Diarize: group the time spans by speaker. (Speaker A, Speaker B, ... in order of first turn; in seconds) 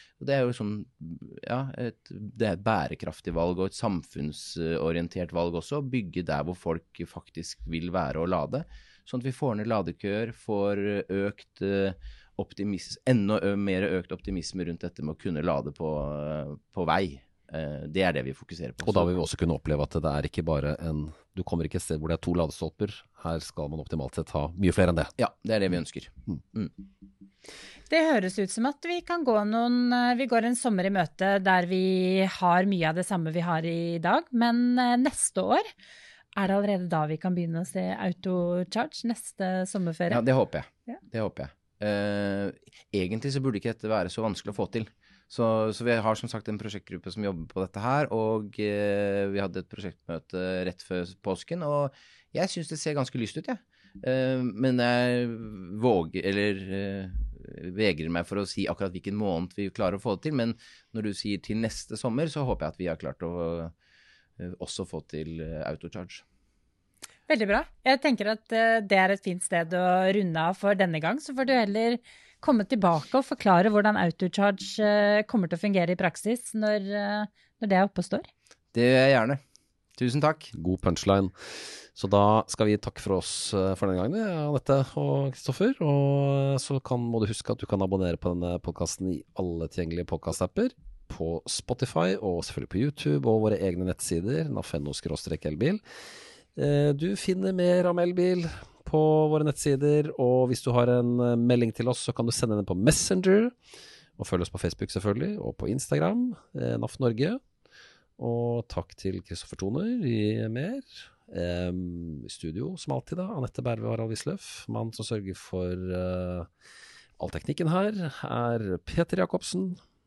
Speaker A: 0.2-19.1, 25.2-26.7, 40.1-63.7, 64.4-66.2, 78.7-79.4, 80.0-80.5
Speaker B: 18.8-25.1, 80.5-95.8, 96.5-103.5, 104.2-107.4, 108.2-116.5, 117.2-119.8
Speaker C: 27.9-35.6, 36.4-40.2, 67.3-78.3